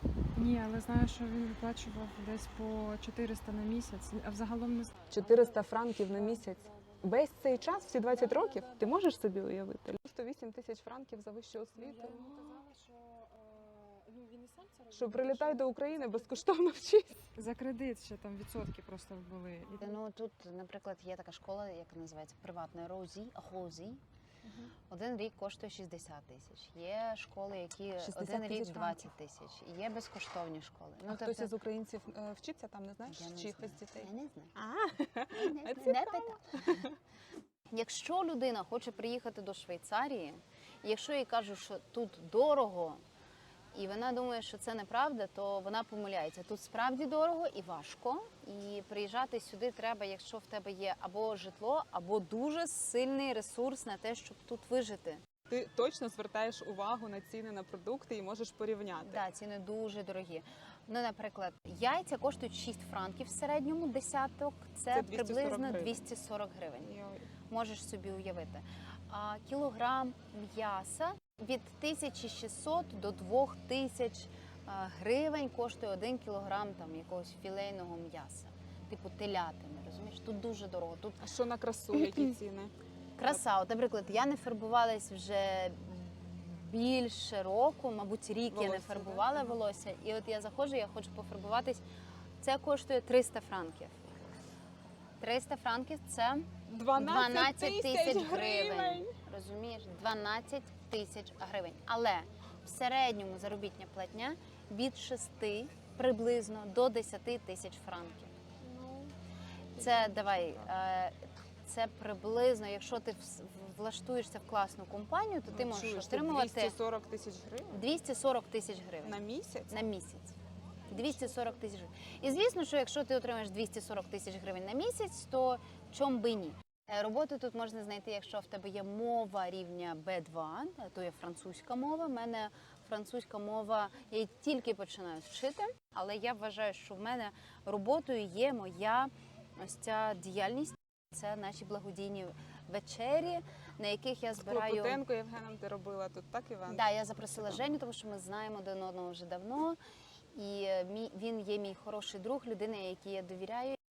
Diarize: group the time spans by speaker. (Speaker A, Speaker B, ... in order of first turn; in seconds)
Speaker A: 0.3-7.0, 8.1-8.9, 11.8-16.6, 17.3-20.0
Speaker B: 5.1-12.3, 14.9-17.3, 27.9-29.1, 31.1-37.0, 55.5-59.2, 64.9-66.0, 66.8-67.3, 81.2-82.7, 88.5-89.6, 96.7-99.2, 108.6-109.1, 109.8-110.7, 115.5-117.9, 119.0-119.8, 144.3-146.8
Speaker C: 19.8-24.0, 24.9-31.5, 33.1-34.5, 35.3-36.8, 37.7-43.0, 43.7-55.2, 59.0-66.9, 67.5-81.2, 83.2-91.8, 92.4-94.3, 95.2-108.3, 109.8-116.7, 117.7-120.3, 120.9-145.0, 146.7-149.8, 150.3-153.8